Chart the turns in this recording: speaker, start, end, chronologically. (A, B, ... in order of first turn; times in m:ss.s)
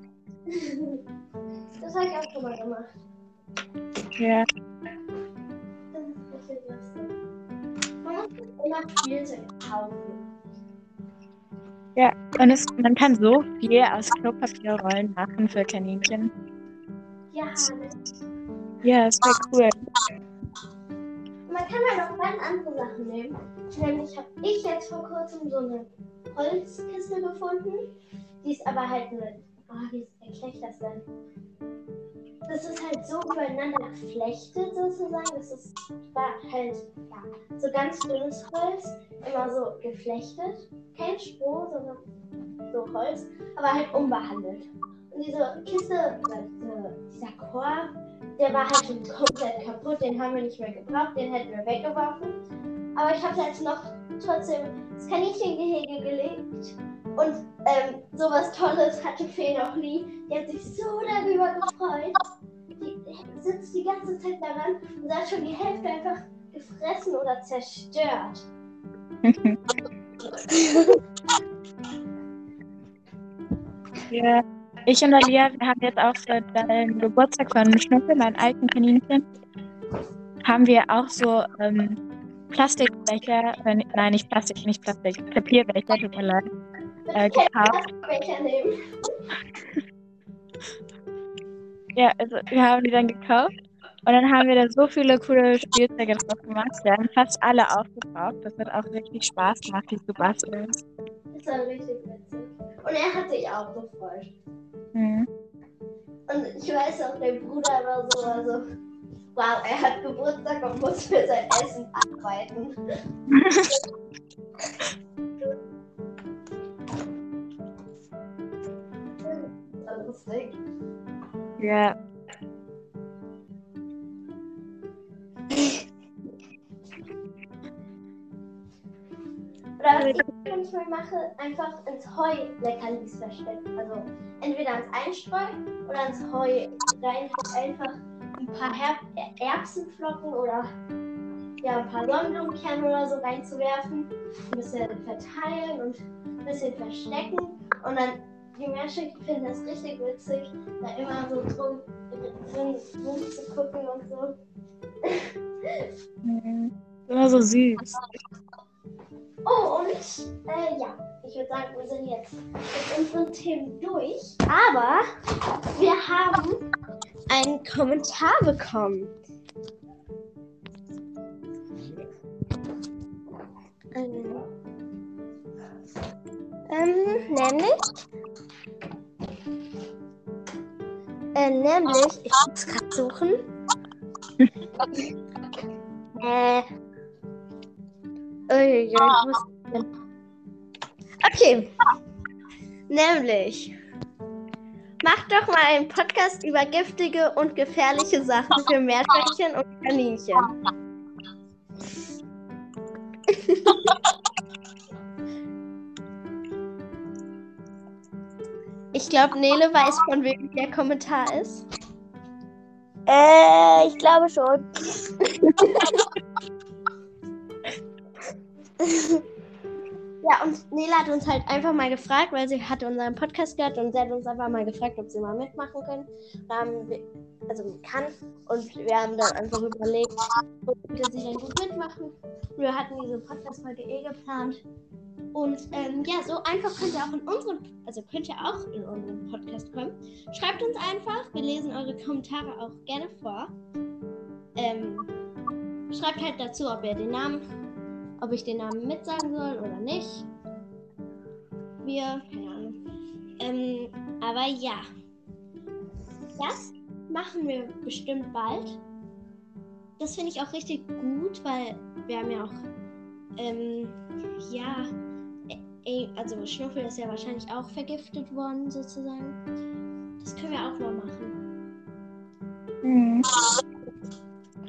0:00.5-0:01.0 A
0:01.8-0:02.9 A
0:04.2-0:04.4 B
0:05.9-0:07.1 A
0:08.0-0:10.2 A
0:12.0-0:16.3 B
0:17.3-0:17.9 A
0:18.8-0:19.8 B
0:21.5-0:27.9 A
0:28.4-0:31.0 A
0:32.5-0:42.0 A
0:42.7-0:52.4 A
0:53.0-1:02.2 A
1:02.8-1:08.4 A
1:09.2-1:09.6 B
1:10.4-1:11.0 A
1:14.1-1:19.2 B
1:20.4-1:22.0 B
1:22.5-1:26.4 B
1:27.1-1:28.8 A
1:27.2-1:27.8 B
1:31.9-1:33.5 B
1:34.0-1:40.8 B
1:41.3-1:44.3 A
1:44.9-1:45.3 B
1:46.3-1:48.6 A
1:49.3-1:52.8 A
1:53.3-1:53.6 B
1:59.2-2:00.6 A
2:01.6-2:02.0 B
2:09.8-2:20.7 A
2:21.6-2:34.4 A
2:35.0-2:35.9 A
2:36.2-2:38.0 B
2:39.4-2:45.1 A
2:45.7-2:46.6 A
2:47.3-2:49.1 A
2:53.9-2:54.4 A
2:56.7-2:57.9 A
3:01.3-3:03.4 A
3:06.2-3:06.6 A
3:08.5-3:09.9 A
3:11.2-3:11.7 A
3:12.9-3:13.7 A
3:15.0-3:20.5 A
3:23.3-3:23.8 A
3:28.9-3:31.6 A
3:33.1-3:35.1 C
3:35.4-3:36.0 A
3:40.2-3:54.6 A
3:55.3-4:03.5 A
4:04.6-4:05.1 A
4:05.9-4:07.4 A
4:08.2-4:10.3 A
4:11.8-4:12.8 A
4:13.4-4:14.9 A
4:16.4-4:18.8 A
4:20.0-4:22.6 A
4:23.4-4:24.9 A
4:25.5-4:29.4 A
4:30.2-4:31.4 A
4:32.8-4:33.3 B